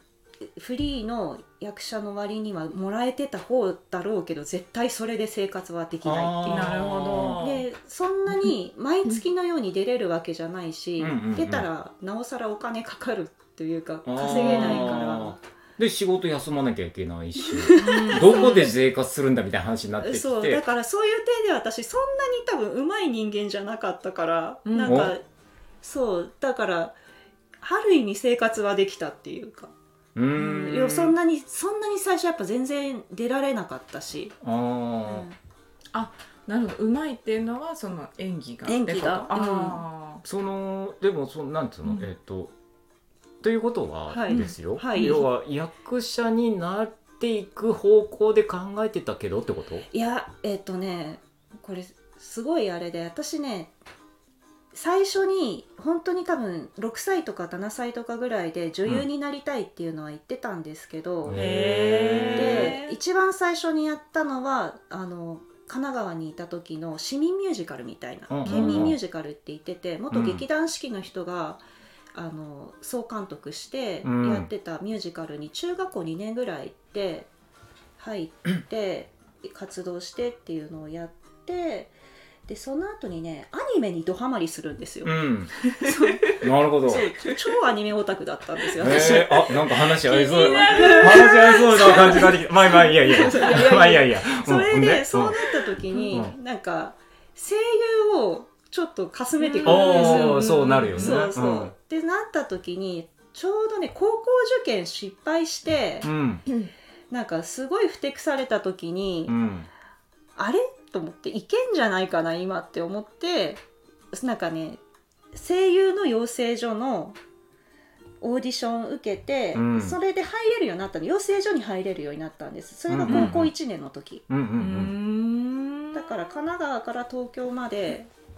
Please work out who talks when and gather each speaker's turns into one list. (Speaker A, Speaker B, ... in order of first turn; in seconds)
Speaker A: 0.4-6.8, 7.4-15.4, 17.4-18.7, 20.0-25.2, 25.8-26.9, 27.6-29.7, 30.3-34.4, 35.0-35.4, 38.6-39.8, 44.1-45.2, 49.9-53.7, 54.7-61.4, 62.3-71.6, 72.1-77.3, 78.0-81.9, 82.5-85.1, 85.8-106.1, 107.1-109.4, 110.3-114.8, 115.3-117.2, 118.2-124.2, 125.9-128.1
Speaker B: 6.0-7.4, 11.0-11.7, 14.0-20.6, 24.8-25.1, 30.1-31.1, 34.4-35.3, 40.2-42.5, 43.4-49.9, 61.2-62.8, 68.3-69.0, 70.1-70.4, 74.0-74.5, 85.0-85.5, 86.3-87.1, 88.8-95.4, 99.6-101.7, 106.0-106.4, 109.3-109.7, 119.5-120.0, 122.9-123.5, 124.3-124.9
Speaker C: 6.5-7.6, 14.3-14.9, 17.8-18.7, 24.6-25.1, 35.9-40.2, 44.3-45.2, 61.3-63.0, 68.4-68.9, 85.8-86.2, 88.9-89.2, 90.0-92.3, 99.4-101.3, 123.1-123.3, 124.6-126.1